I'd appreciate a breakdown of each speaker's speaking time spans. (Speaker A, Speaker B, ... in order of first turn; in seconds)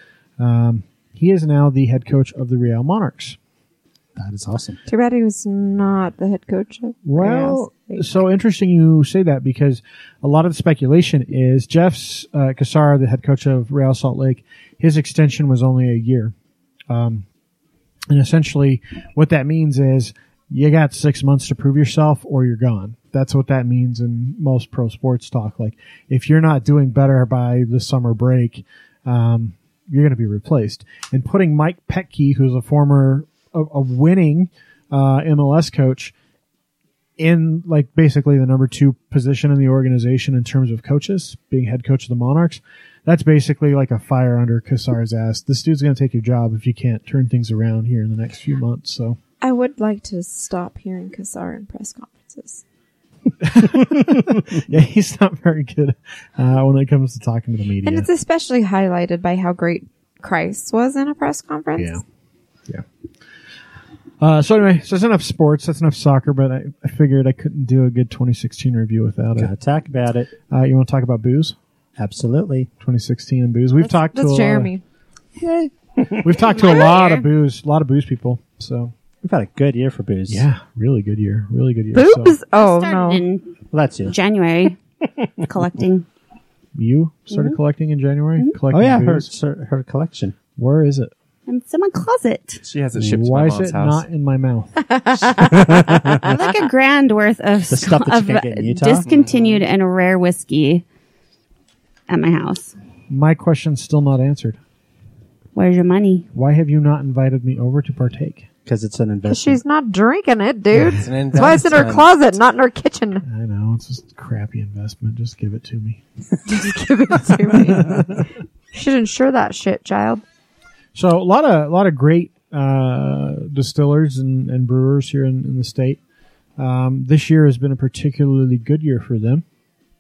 Speaker A: 0.4-3.4, 7.0-16.3, 16.9-17.3, 18.1-36.1, 37.2-49.2, 53.4-58.1, 61.8-62.0, 64.2-69.5, 70.5-71.6, 72.8-74.7, 76.2-78.9, 80.3-82.4, 86.8-89.3, 90.6-91.1, 93.0-94.8, 103.1-104.6, 106.3-108.5, 113.3-116.0, 117.5-118.1, 121.0-126.0, 126.6-129.4
Speaker B: 4.2-4.8, 69.4-70.3, 72.0-72.7, 75.4-76.3, 79.2-80.5, 83.7-84.2, 88.7-90.4, 95.4-96.4, 97.7-99.1, 108.7-109.6
Speaker C: 4.9-8.2, 49.4-52.6, 57.8-62.0, 73.8-74.8, 81.9-83.2, 95.0-95.7, 109.3-113.2, 116.5-118.1, 118.7-120.2
Speaker D: 76.5-77.3, 82.5-83.5, 84.1-84.8, 85.4-86.1, 91.5-92.6, 96.2-100.8, 102.1-102.7, 105.5-106.3
Speaker E: 92.7-94.0, 99.0-99.6, 110.8-112.1